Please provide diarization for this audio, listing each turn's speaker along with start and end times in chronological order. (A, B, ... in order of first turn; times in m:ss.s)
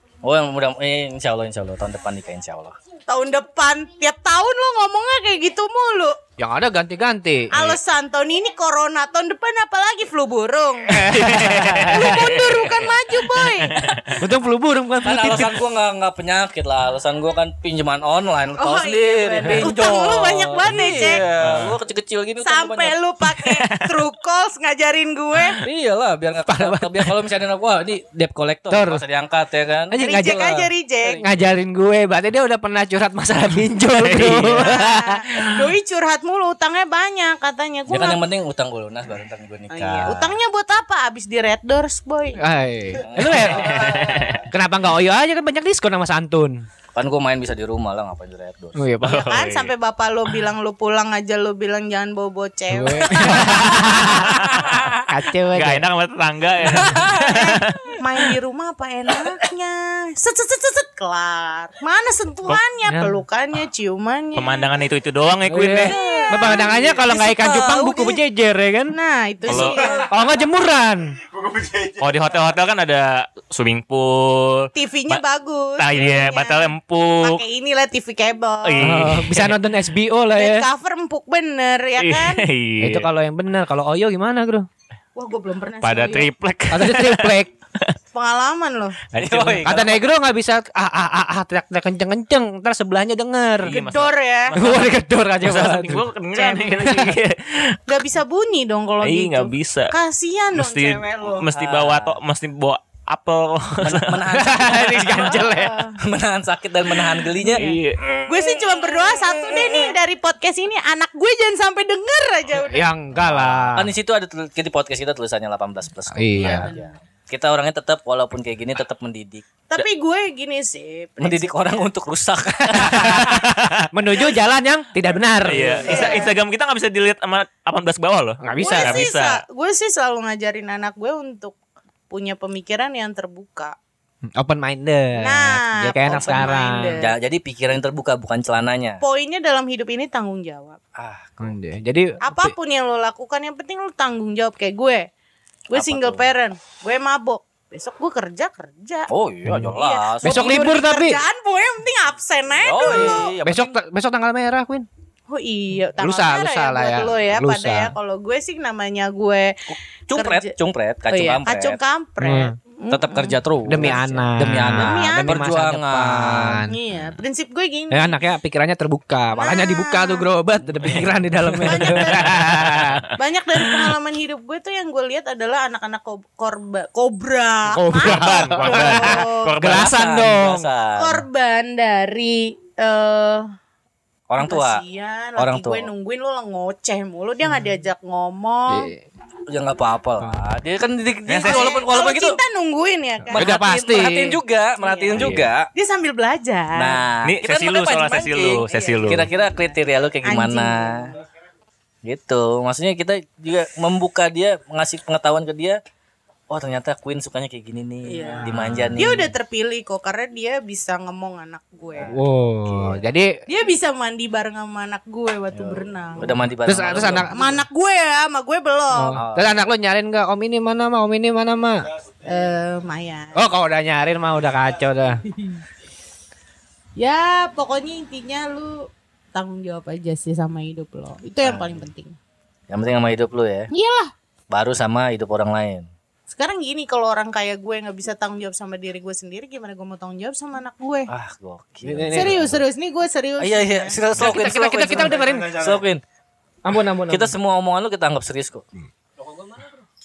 0:00.2-0:02.8 A
0:03.1-0:06.2 B
0:06.4-0:07.5 C
0:07.5-0:11.1 B
0:10.9-0:12.2 C
0:11.0-0:14.0 D
0:11.9-0:14.1 B
0:14.2-0:15.6 C
0:15.0-0:23.0 A
0:18.6-0:21.3 B
0:21.4-0:21.8 D
0:22.4-0:25.6 B
0:23.3-0:23.6 D
0:25.6-0:30.4 A
0:26.5-0:27.1 C
0:28.7-0:29.0 C
0:29.9-0:35.2 C
0:30.0-0:31.2 B
0:34.0-0:34.6 D
0:34.4-0:38.2 B
0:37.9-0:40.4 A
0:39.7-0:42.4 B
0:42.4-0:43.7 C
0:43.0-0:43.7 A
0:43.4-0:44.4 D
0:43.6-0:44.4 E
0:44.5-0:46.6 C
0:47.0-0:48.8 A
0:48.8-0:49.2 C
0:49.0-0:49.7 D
0:49.0-0:53.9 B
0:52.7-0:54.4 C
0:53.2-0:54.8 D
0:54.6-0:55.0 A
0:55.1-0:55.8 C
0:55.5-0:58.3 D
0:56.6-0:57.0 C
0:56.8-0:57.3 A
0:57.2-1:04.7 B
1:02.9-1:03.1 C
1:04.4-1:06.0 D
1:05.5-1:09.0 C
1:05.8-1:08.2 B
1:06.0-1:08.0 A
1:08.9-1:10.1 B
1:09.4-1:09.8 D
1:09.6-1:10.1 E
1:10.1-1:11.1 C
1:11.3-1:12.5 E
1:12.0-1:15.2 D
1:14.8-1:19.0 B
1:15.8-1:17.4 D
1:18.6-1:19.6 D
1:18.8-1:20.7 C
1:20.3-1:22.4 B
1:22.0-1:23.1 D
1:22.8-1:24.7 C
1:25.2-1:26.3 B
1:25.8-1:27.9 D
1:26.7-1:27.5 C
1:28.1-1:29.0 B
1:29.1-1:29.6 D
1:29.1-1:30.0 A
1:29.6-1:33.8 C
1:33.6-1:37.8 D
1:33.7-1:34.6 B
1:34.6-1:36.0 C
1:36.4-1:36.9 B
1:36.8-1:37.1 C
1:37.9-1:41.5 B
1:39.0-1:40.0 D
1:40.5-1:44.2 D
1:41.5-1:42.2 A
1:43.8-1:45.4 A
1:44.3-1:45.8 C
1:44.9-1:46.0 B
1:46.0-1:47.7 A
1:47.4-1:48.1 D
1:48.2-1:52.9 B
1:52.6-1:53.9 C
1:53.1-1:59.8 A
1:56.1-1:56.7 C
1:56.4-1:56.9 B
1:59.7-2:01.9 B
2:01.2-2:03.4 A
2:02.8-2:03.2 C
2:03.0-2:03.8 D
2:03.9-2:05.9 C
2:05.4-2:09.4 D
2:05.8-2:06.3 B
2:08.4-2:09.0 C
2:08.6-2:11.6 B
2:12.1-2:13.8 B
2:14.4-2:17.0 C
2:15.2-2:17.1 B
2:17.0-2:19.0 A
2:19.0-2:20.8 B
2:21.0-2:21.6 A
2:21.4-2:22.5 C
2:22.2-2:25.1 B
2:25.7-2:29.1 B
2:25.7-2:26.3 A
2:29.1-2:30.8 A
2:29.4-2:29.7 C
2:29.7-2:33.3 B
2:30.2-2:31.2 C
2:32.5-2:33.8 A
2:33.4-2:34.9 C
2:35.3-2:40.5 B
2:36.0-2:37.9 C
2:39.7-2:41.8 A
2:41.1-2:44.2 B
2:42.2-2:42.6 C
2:42.9-2:46.6 A
2:43.7-2:46.8 C
2:44.7-2:45.4 B
2:46.7-2:48.2 B
2:47.9-2:53.0 C
2:49.3-2:50.3 B
2:51.5-2:52.1 D
2:51.6-2:52.5 B
2:53.2-2:59.5 B
2:57.7-3:00.7 C
2:58.0-3:00.0 D
2:59.6-3:01.3 A
3:01.0-3:03.5 B
3:04.3-3:04.8 A
3:04.4-3:08.9 B
3:05.4-3:05.9 A
3:08.7-3:09.0 C
3:09.5-3:12.4 A
3:11.3-3:11.8 D
3:11.4-3:13.6 B
3:13.3-3:15.7 A
3:13.3-3:14.4 C
3:14.8-3:17.0 B
3:15.2-3:15.4 C
3:16.7-3:21.1 A
3:17.2-3:19.3 D
3:18.1-3:19.4 B
3:20.2-3:21.2 B
3:22.0-3:25.8 A
3:26.5-3:29.3 A
3:28.0-3:32.1 B
3:32.0-3:33.0 A
3:32.1-3:33.4 C
3:33.5-3:36.4 B
3:35.5-3:37.6 A
3:36.7-3:37.4 C
3:37.3-3:39.2 B
3:38.9-3:41.9 C
3:39.1-3:39.5 A
3:42.3-3:43.4 B
3:43.3-3:45.2 C
3:45.3-3:45.6 B
3:47.0-3:52.2 B
3:51.4-3:51.9 A
3:52.7-3:53.7 A
3:53.7-3:54.1 B
3:54.5-3:55.9 A
3:56.3-4:01.1 B
4:01.1-4:02.7 A
4:01.8-4:02.4 C
4:02.1-4:04.0 B
4:03.4-4:06.0 A
4:04.2-4:05.5 C
4:04.9-4:05.8 E
4:06.6-4:07.3 C
4:07.1-4:08.6 A
4:09.3-4:09.6 E